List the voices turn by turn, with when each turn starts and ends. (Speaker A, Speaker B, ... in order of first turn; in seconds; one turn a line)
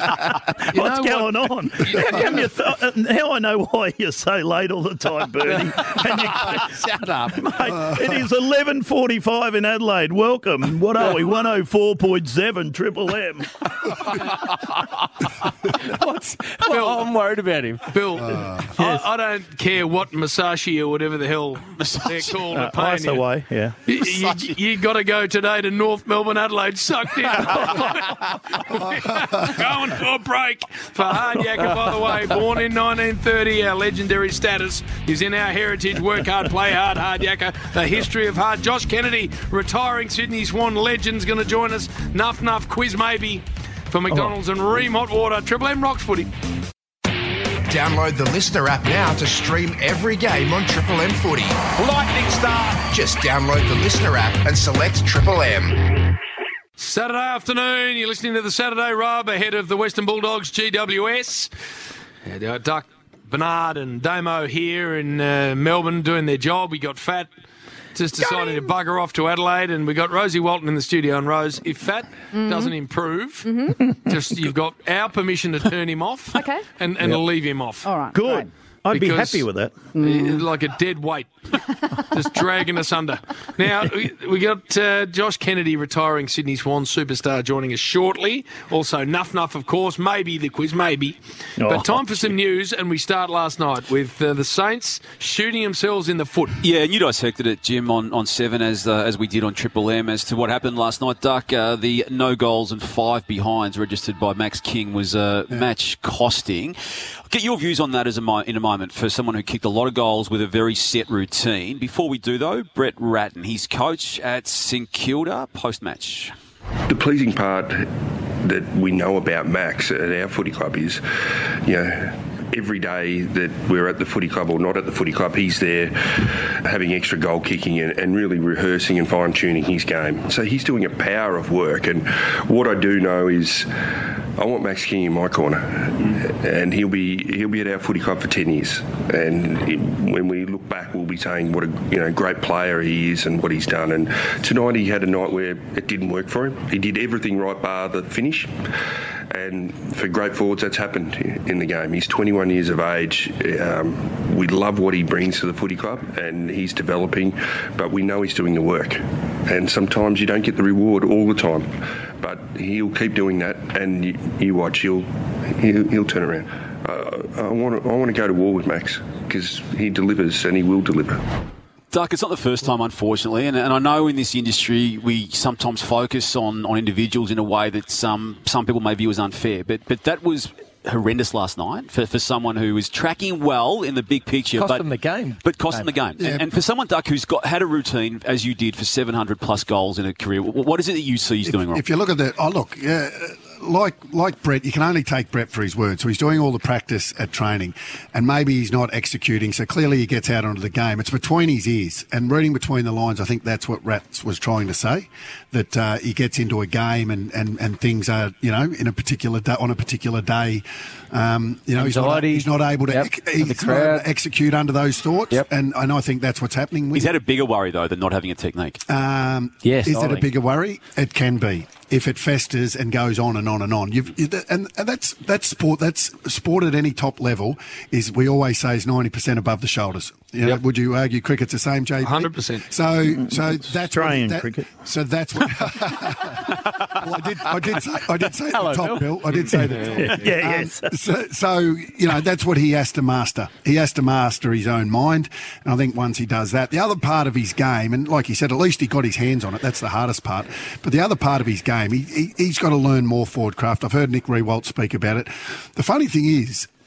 Speaker A: 0.2-6.8
Speaker B: 0.7-1.5
Speaker C: 6.4-7.5
Speaker A: 7.3-13.6
Speaker C: 14.3-14.9
Speaker C: 15.7-17.9
Speaker B: 16.7-17.1
Speaker B: 17.9-23.2
Speaker D: 18.2-18.6
Speaker A: 18.8-19.1
Speaker E: 21.8-22.4
Speaker A: 22.5-23.8
Speaker B: 23.9-46.3
Speaker E: 24.0-24.6
Speaker E: 27.5-27.7
Speaker F: 47.7-56.0
Speaker B: 56.8-61.5
Speaker B: 62.3-67.3
Speaker B: 68.0-77.9
Speaker G: 72.3-72.7
Speaker G: 73.5-73.8
Speaker G: 76.3-76.6
Speaker G: 77.8-78.5
Speaker A: 78.1-79.8
Speaker B: 78.9-79.4
Speaker G: 80.0-80.4
Speaker B: 80.0-81.3
Speaker B: 82.0-96.6
Speaker A: 91.6-92.3
Speaker E: 96.6-106.8
Speaker E: 107.3-116.3
Speaker H: 116.9-117.9
Speaker H: 118.4-133.7
Speaker H: 134.4-148.6
Speaker H: 149.3-171.2
Speaker E: 171.9-184.8
Speaker C: 184.6-185.9
Speaker E: 185.4-191.8
Speaker D: 186.2-186.5
Speaker D: 191.5-217.1
Speaker C: 211.8-214.1
Speaker E: 216.9-218.8
Speaker D: 218.9-256.7
Speaker C: 219.6-220.3
Speaker B: 232.0-232.7
Speaker A: 233.2-234.7
Speaker C: 238.5-239.9
Speaker A: 240.0-240.9